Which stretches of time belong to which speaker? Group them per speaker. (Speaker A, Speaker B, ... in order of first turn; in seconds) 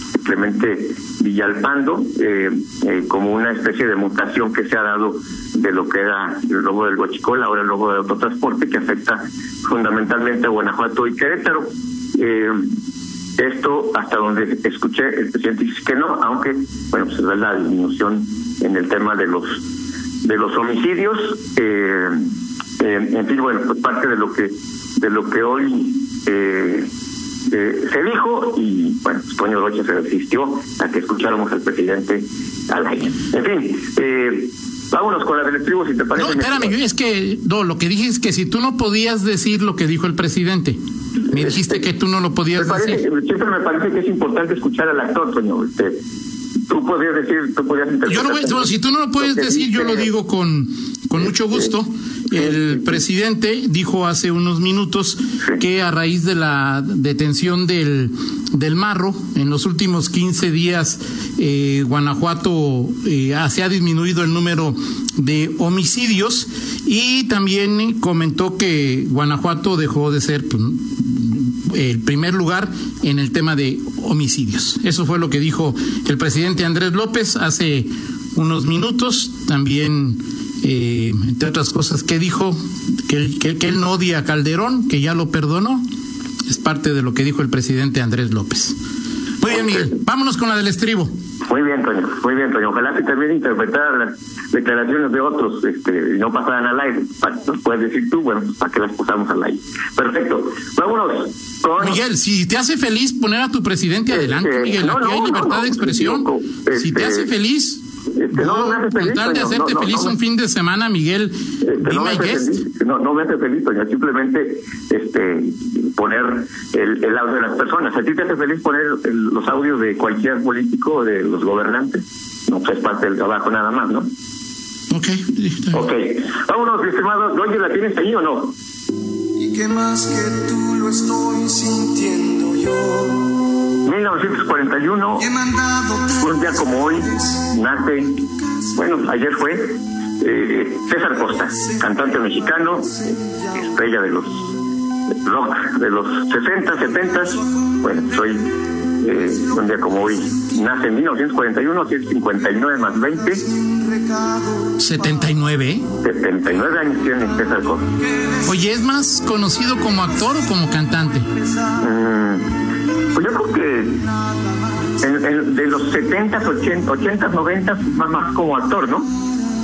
Speaker A: 0.2-12.7, 13.4-19.6, 20.2-26.9, 27.5-36.8, 42.5-46.0, 46.7-50.1, 52.3-52.8, 89.5-89.9, 91.5-102.0, 104.1-107.3, 108.1-110.2, 111.6-124.1, 125.7-128.5, 133.8-135.4, 136.0-144.5, 145.2-153.5, 156.0-157.9, 161.8-162.5, 163.1-164.1, 165.0-169.1
Speaker B: 36.1-43.0, 48.1-85.8, 86.5-88.8, 89.4-91.1, 101.8-112.6, 124.9-125.8, 154.8-155.8, 158.4-161.3
Speaker C: 129.4-133.2